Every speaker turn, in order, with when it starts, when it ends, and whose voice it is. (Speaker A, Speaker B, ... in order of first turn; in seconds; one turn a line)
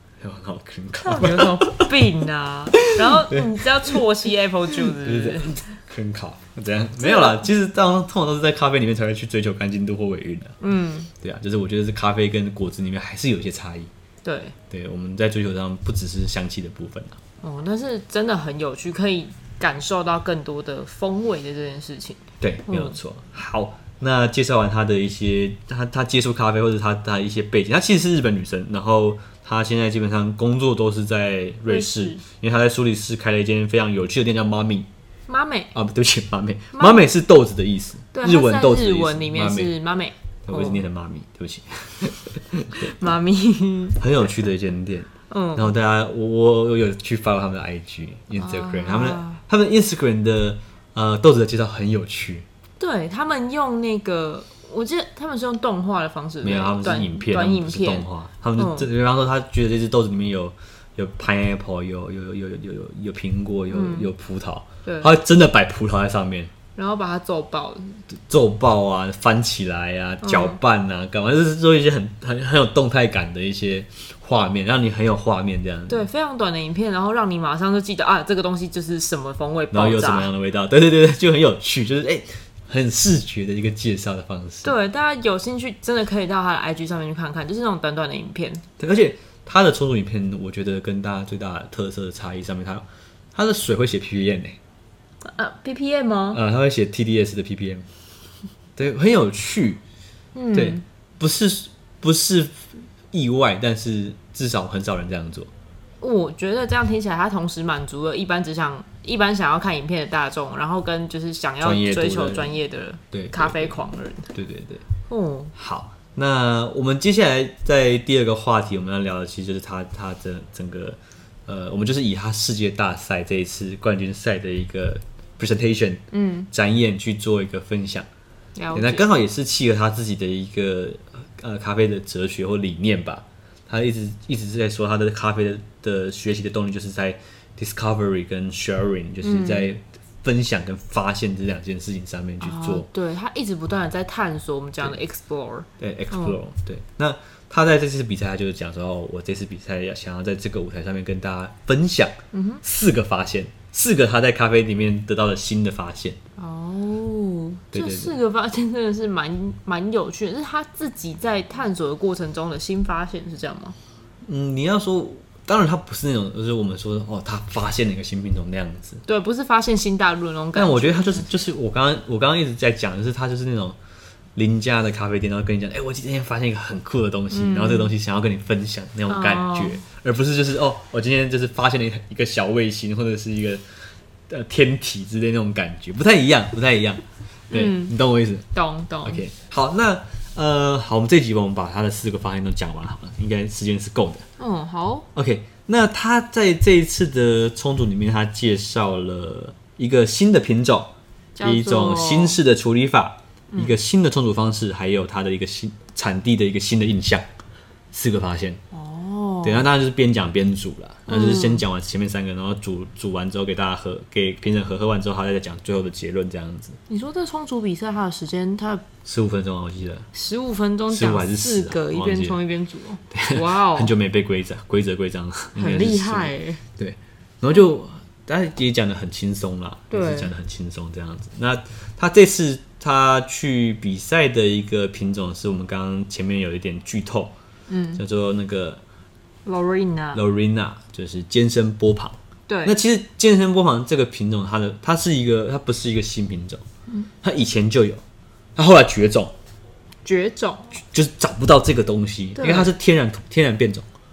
Speaker A: 0.2-1.9
Speaker B: 1.0-5.6
Speaker A: 2.8-4.0
Speaker A: 4.7-10.6
Speaker B: 7.0-7.5
Speaker B: 10.6-11.1
Speaker A: 11.2-13.9
Speaker B: 14.2-14.6
Speaker A: 14.7-17.2
Speaker B: 17.4-23.0
Speaker A: 22.4-34.9
Speaker B: 31.7-32.2
Speaker B: 35.3-35.7
Speaker A: 35.7-39.8
Speaker B: 36.7-37.1
Speaker B: 38.1-40.8
Speaker A: 40.5-42.9
Speaker B: 42.8-44.0
Speaker A: 44.0-52.5
Speaker B: 45.3-45.7
Speaker B: 48.4-49.4
Speaker B: 52.8-58.9
Speaker A: 56.4-66.5
Speaker B: 63.7-64.1
Speaker B: 64.8-65.1
Speaker B: 66.8-68.0
Speaker A: 68.1-76.1
Speaker B: 70.2-70.6
Speaker B: 75.9-80.3
Speaker A: 79.7-84.7
Speaker B: 84.6-88.6
Speaker A: 88.8-94.6
Speaker B: 95.2-96.4
Speaker A: 96.3-97.9
Speaker A: 98.8-99.8
Speaker B: 100.3-100.8
Speaker A: 100.5-105.5
Speaker B: 106.0-114.3
Speaker A: 111.6-112.5
Speaker A: 113.1-113.8
Speaker A: 114.3-114.8
Speaker B: 115.1-115.5
Speaker A: 115.6-128.1
Speaker B: 126.1-126.5
Speaker B: 128.6-129.1
Speaker A: 128.7-142.9
Speaker B: 139.2-139.7
Speaker B: 142.4-146.4
Speaker A: 145.8-156.2
Speaker B: 152.3-152.6
Speaker B: 156.4-163.8
Speaker A: 157.7-158.2
Speaker A: 164.2-169.0
Speaker B: 169.1-171.3
Speaker A: 170.6-173.8
Speaker A: 174.4-183.8
Speaker B: 177.3-177.9
Speaker B: 179.1-179.8
Speaker A: 184.3-188.5
Speaker B: 187.5-187.9
Speaker B: 188.5-189.2
Speaker A: 189.0-194.3
Speaker B: 194.4-195.1
Speaker A: 195.2-207.3
Speaker B: 201.4-202.4
Speaker A: 207.9-208.6
Speaker B: 208.7-209.7
Speaker A: 209.4-216.8
Speaker B: 211.1-211.6
Speaker B: 216.9-218.9
Speaker A: 219.0-220.1
Speaker B: 220.1-223.9
Speaker A: 220.9-222.4
Speaker A: 223.1-237.3
Speaker B: 225.6-226.6
Speaker B: 229.9-230.3
Speaker B: 237.7-238.0
Speaker A: 238.0-238.8
Speaker B: 239.4-240.2
Speaker A: 240.1-246.6
Speaker B: 242.5-242.8
Speaker A: 247.2-248.0
Speaker A: 248.6-249.3
Speaker B: 250.0-250.8
Speaker A: 250.8-253.8
Speaker B: 252.4-252.7